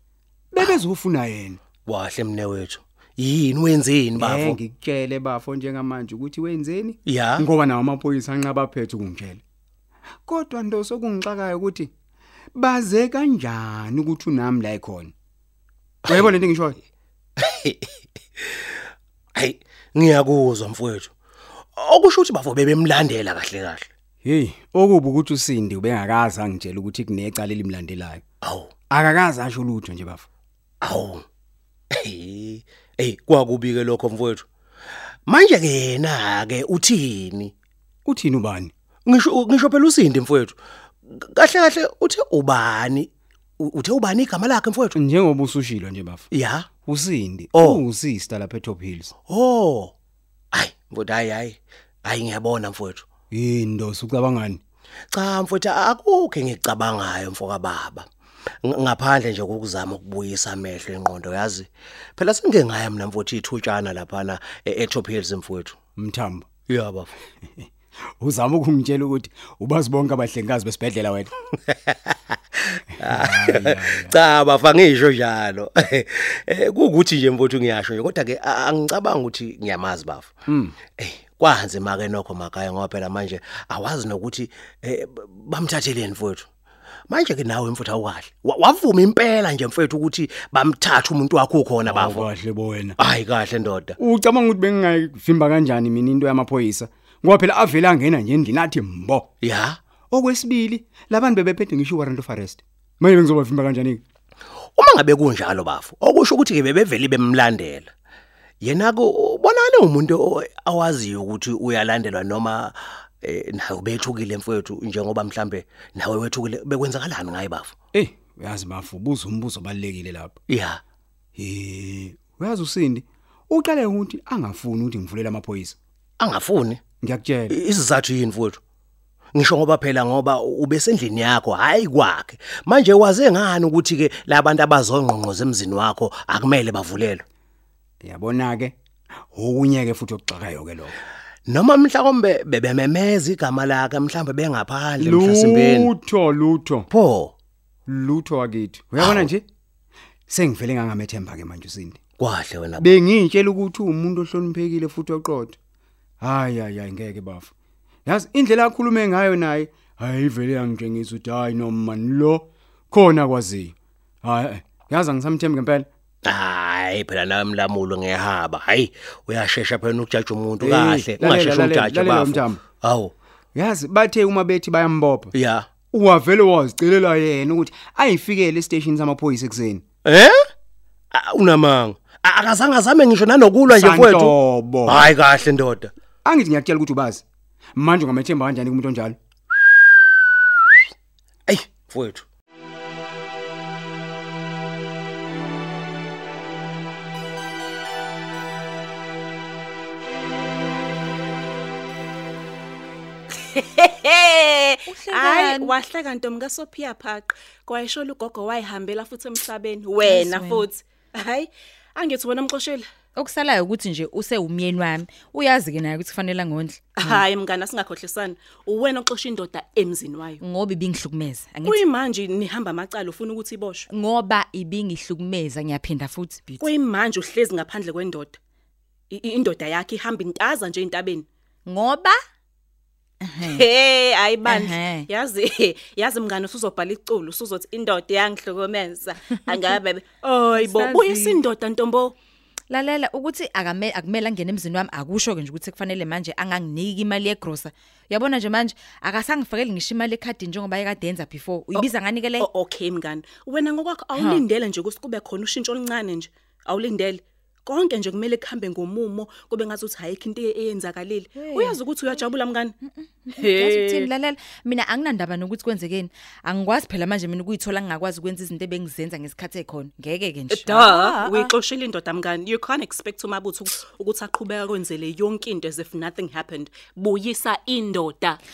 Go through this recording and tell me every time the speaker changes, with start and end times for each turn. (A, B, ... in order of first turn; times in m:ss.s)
0:00.5-0:01.6 A
0:01.8-0:04.6 B
0:04.2-0:09.4 A
0:07.0-0:07.4 B
0:10.2-0:11.9 A
0:12.5-0:15.1 A
0:16.0-0:16.4 B
0:16.1-0:16.8 A
0:17.4-0:17.8 B
0:19.3-0:21.1 B
0:21.8-0:23.9 B
0:24.2-0:28.2 A
0:28.4-0:28.7 B
0:28.9-0:30.2 A
0:30.8-0:31.2 B
0:31.9-0:34.4 B
0:35.2-0:37.5 B
0:38.0-0:38.7 A
0:39.0-0:43.1 B
0:43.6-0:44.9 B
0:44.9-0:46.3 A
0:46.3-0:46.7 B
0:46.8-0:49.1 A
0:47.5-0:47.8 B
0:49.3-0:49.9 B
0:50.5-0:53.0 B
0:53.3-0:54.6 A
0:55.1-0:58.1 B
0:58.6-1:05.8 B
1:06.0-1:06.5 A
1:06.7-1:07.1 B
1:08.2-1:11.3 A
1:11.9-1:12.1 B
1:13.0-1:14.1 A
1:13.0-1:20.3 B
1:20.5-1:20.8 A
1:21.0-1:26.5 B
1:27.1-1:32.3 B
1:31.8-1:33.0 A
1:33.0-1:34.0 B
1:34.0-1:39.3 A
1:39.4-1:39.8 B
1:40.1-1:44.0 A
1:44.8-1:47.9 B
1:48.6-1:57.7 B
1:57.9-2:00.4 A
2:00.5-2:00.8 B
2:01.4-2:05.8 A
2:06.2-2:06.8 B
2:07.0-2:07.5 A
2:07.5-2:08.6 B
2:09.3-2:17.2 B
2:18.0-2:18.8 A
2:19.3-2:21.0 A
2:21.5-2:25.9 B
2:25.0-2:26.9 A
2:26.9-2:27.3 B
2:27.9-2:29.4 A
2:29.0-2:29.3 B
2:30.3-2:32.0 A
2:32.2-2:33.0 B
2:32.8-2:35.6 A
2:36.2-2:37.5 A
2:38.0-2:45.9 A
2:46.2-2:53.1 B
2:50.6-2:52.6 A
2:53.5-2:55.3 A
2:55.3-2:55.7 B
2:55.9-2:59.8 A
3:00.0-3:00.4 B
3:01.1-3:05.9 B
3:03.7-3:05.1 A
3:06.2-3:07.2 A
3:07.8-3:09.2 A
3:11.5-3:12.2 B
3:23.5-3:32.8 C
3:24.9-3:25.7 D
3:30.0-3:30.7 D
3:33.2-3:37.2 D
3:37.0-3:40.4 C
3:40.4-3:41.8 D
3:41.6-3:43.9 C
3:43.9-3:46.7 D
3:46.6-3:48.4 C
3:49.1-3:51.2 C
3:51.6-3:52.2 D
3:53.2-3:53.6 D
3:53.4-4:02.1 C
3:54.4-3:55.1 D
4:00.6-4:01.4 D
4:02.7-4:12.5 D
4:12.4-4:22.7 C
4:14.1-4:14.4 D
4:21.4-4:21.8 D
4:22.9-4:31.5 D
4:23.4-4:24.1 C
4:30.5-4:38.4 C